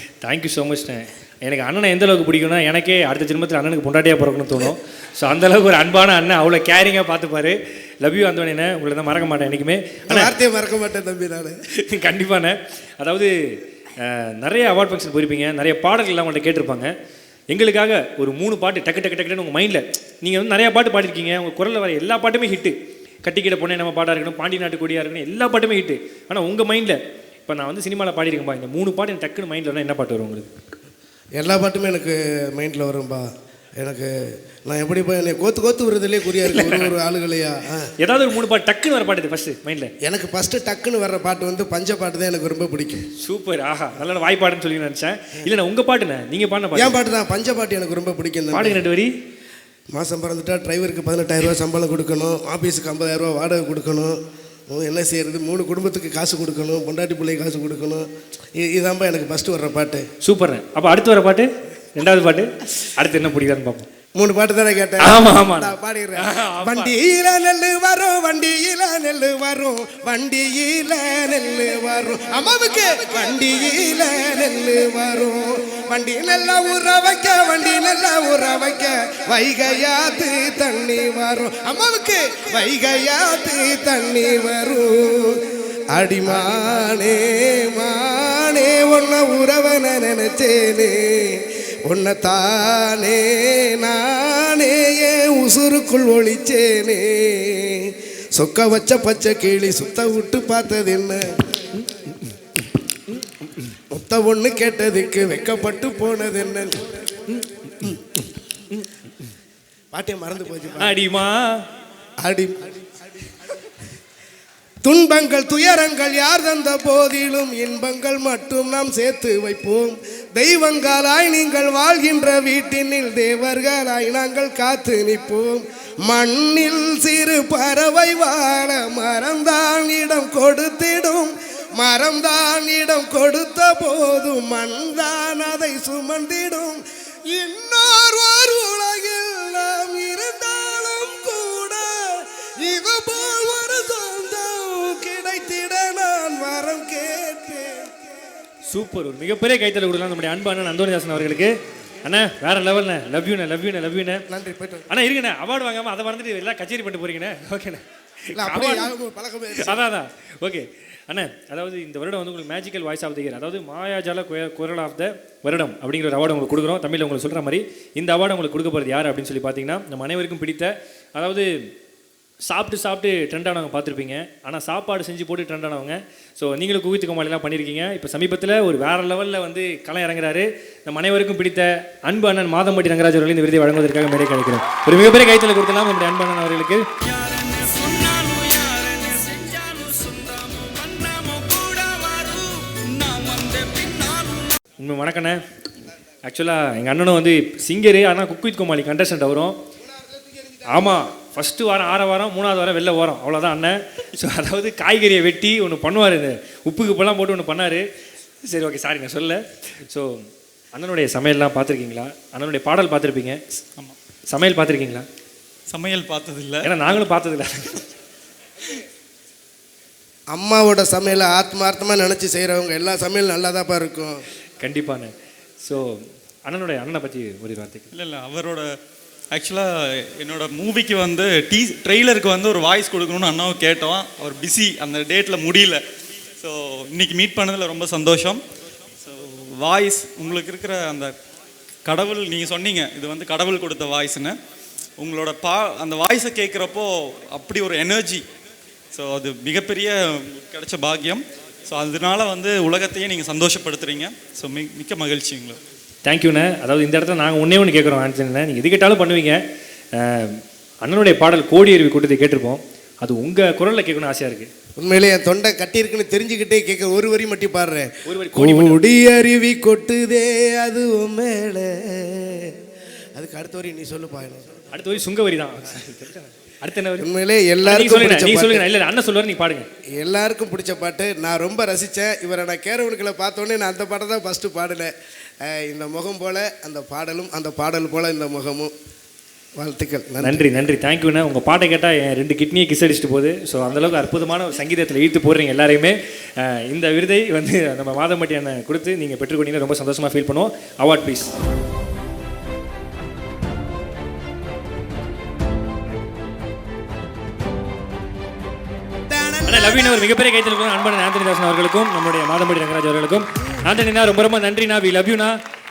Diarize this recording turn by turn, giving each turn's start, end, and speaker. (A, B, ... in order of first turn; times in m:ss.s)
0:00.2-0:10.3 A
0:10.1-0:11.5 B
0:11.8-0:16.9 A
0:17.5-0:30.5 A
0:31.4-0:33.3 B
0:33.8-0:34.1 B
0:34.7-0:37.9 B
0:36.4-0:36.9 A
0:38.0-0:39.9 A
0:40.0-0:43.0 B
0:43.2-0:47.0 A
0:46.7-0:48.8 B
0:48.5-0:49.1 A
0:49.9-0:54.2 B
0:54.7-0:58.0 B
0:58.6-1:00.0 B
1:00.2-1:03.9 A
1:04.2-1:25.3 B
1:05.0-1:06.9 A
1:25.9-1:41.2 B
1:43.9-1:48.0 B
1:49.9-1:51.0 B
1:50.8-1:51.6 A
1:52.2-1:53.1 B
1:54.8-2:28.0 B
2:28.7-2:31.5 A
2:32.0-2:34.2 A
2:34.3-2:34.8 B
2:34.9-2:38.9 A
2:38.3-2:39.8 B
2:39.6-2:51.5 A
2:52.4-3:06.8 A
3:07.0-3:14.6 C
3:14.8-3:15.4 A
3:16.2-3:19.6 A
3:20.2-3:20.6 B
3:20.7-3:27.8 A
3:28.4-3:30.2 A
3:30.7-3:33.4 A
3:34.3-3:35.1 A
3:35.7-3:36.7 C
3:36.6-3:37.9 A
3:40.3-3:44.2 B
3:44.6-3:47.9 A
3:47.9-3:48.7 C
3:49.3-3:55.8 C
3:56.4-3:58.4 C
3:59.0-4:01.1 C
4:01.8-4:04.4 C
4:05.0-4:08.2 C
4:08.9-4:15.6 C
4:16.0-4:19.4 A
4:20.0-4:24.5 A
4:24.8-4:32.5 B
4:28.0-4:28.8 A
4:33.2-4:34.4 B
4:34.7-4:37.1 A
4:37.0-4:38.7 B
4:37.6-4:39.7 A
4:40.0-4:44.9 B
4:45.4-4:48.7 B
4:49.6-4:50.4 B
4:50.2-5:01.3 A
5:09.1-5:10.1 B
5:09.4-5:15.4 A